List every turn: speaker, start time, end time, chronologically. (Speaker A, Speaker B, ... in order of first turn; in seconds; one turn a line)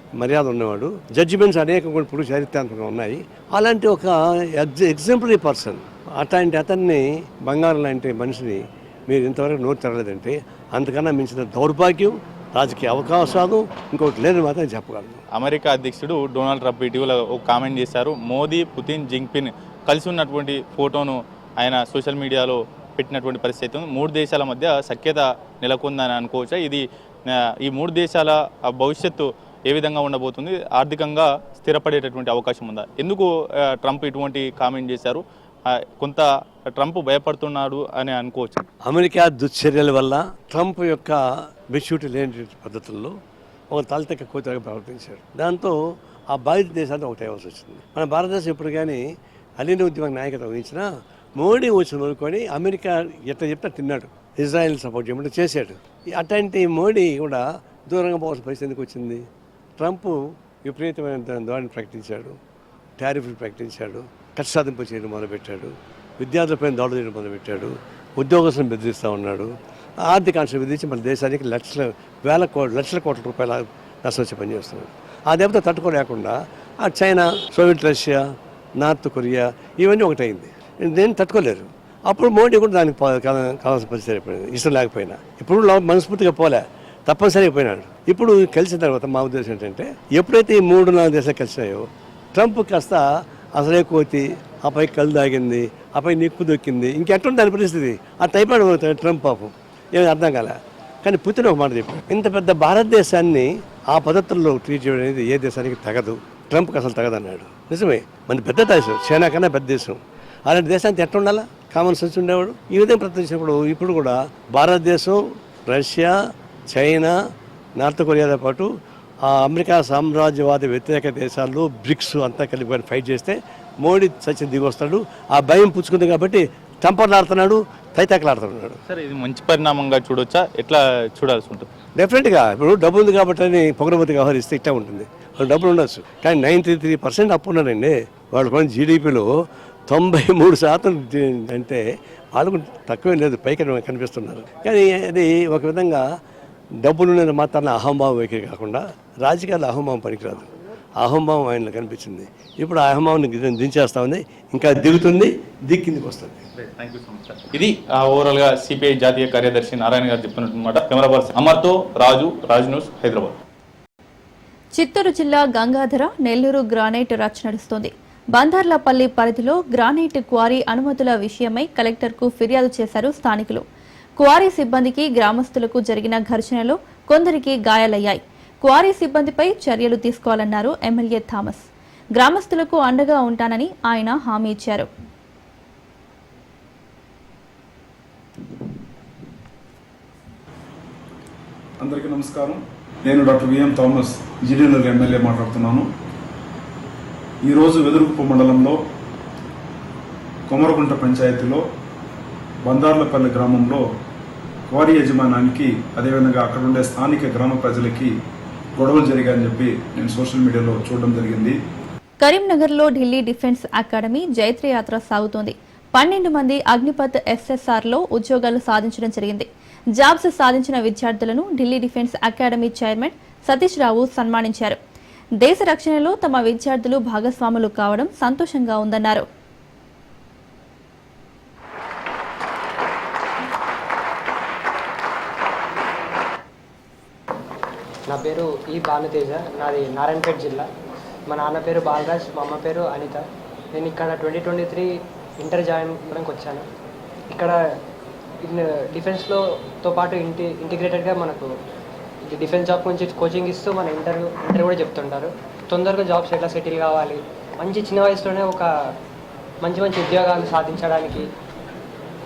Speaker A: 0.2-15.2
Speaker B: 15.3-38.7
Speaker A: 38.9-41.2
Speaker A: 41.7-43.1
Speaker A: 43.7-45.8
Speaker A: 46.3-49.0
Speaker A: 49.6-59.2
Speaker A: 59.8-62.4
Speaker A: 63.0-69.5
Speaker A: 70.0-116.2
Speaker A: 116.7-117.2
Speaker A: 117.8-118.7
Speaker A: 119.2-128.8
Speaker B: 128.9-131.7
Speaker A: 132.0-139.3
Speaker A: 139.9-141.8
Speaker A: 142.3-146.1
Speaker A: 146.8-156.5
Speaker B: 156.6-163.4
Speaker C: 164.8-173.6
Speaker C: 174.2-184.9
Speaker D: 191.8-195.9
Speaker D: 197.4-198.8
Speaker D: 200.5-201.7
Speaker D: 202.7-203.8
Speaker D: 204.7-208.1
Speaker D: 208.8-211.6
Speaker C: 212.2-224.8
Speaker C: 225.4-229.3
Speaker E: 238.1-240.7
Speaker E: 241.3-246.7
Speaker E: 247.3-247.6
Speaker E: 248.4-251.5
Speaker E: 252.3-258.7
Speaker E: 259.6-261.3